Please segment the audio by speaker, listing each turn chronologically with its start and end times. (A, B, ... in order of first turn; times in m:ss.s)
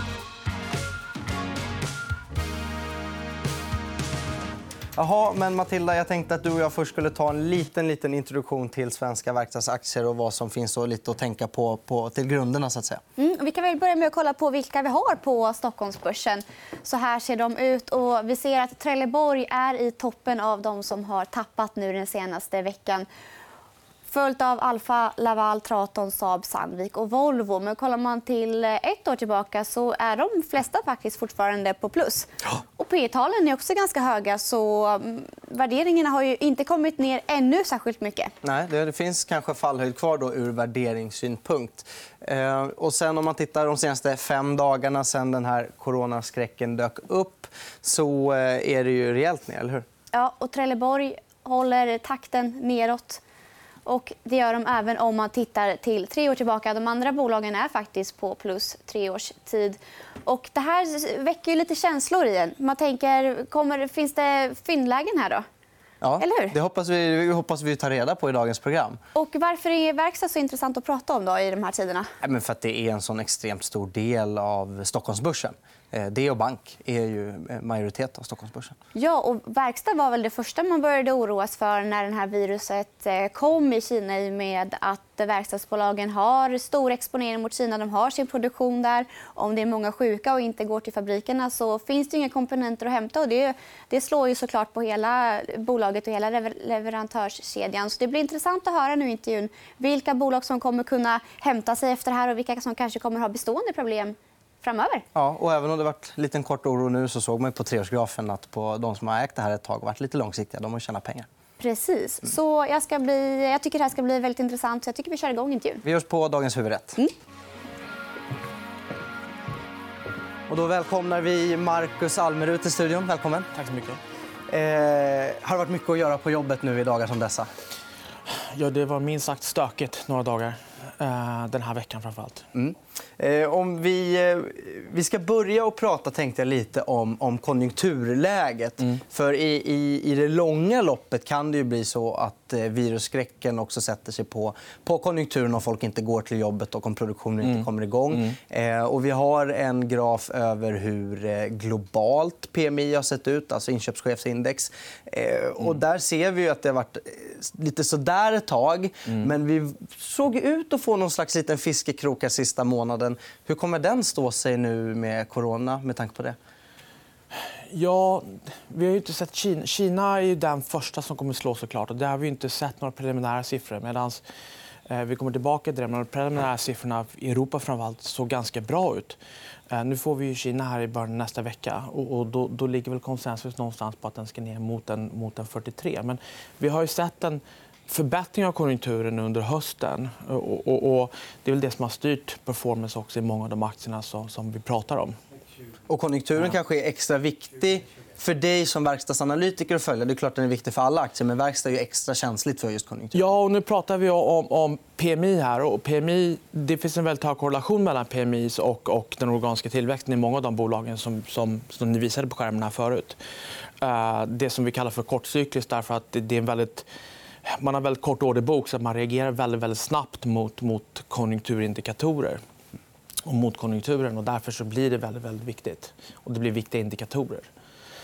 0:05.0-0:13.0 A
0:13.2-0:23.1 B
0:24.1-0:38.3 B
0:38.4-0:49.8 A
0:50.1-0:53.2 B
0:53.9-1:05.4 B
1:06.0-1:09.0 A
1:06.2-1:06.6 B
1:09.2-1:12.1 B
1:12.2-1:18.8 A
1:19.0-1:45.0 B
1:45.2-1:51.3 A
1:51.6-1:55.8 B
1:55.8-1:57.0 A
2:00.5-2:03.5 A
2:03.5-2:04.0 C
2:04.5-2:07.5 A
2:08.3-2:12.5 C
2:12.5-2:46.4 A
2:47.7-2:54.2 C
2:54.9-2:59.2 C
2:59.7-3:15.2 C
3:15.9-3:23.3 A
3:23.1-3:33.2 C
3:33.8-3:36.9 C
3:37.4-3:42.4 C
3:43.2-3:47.5 C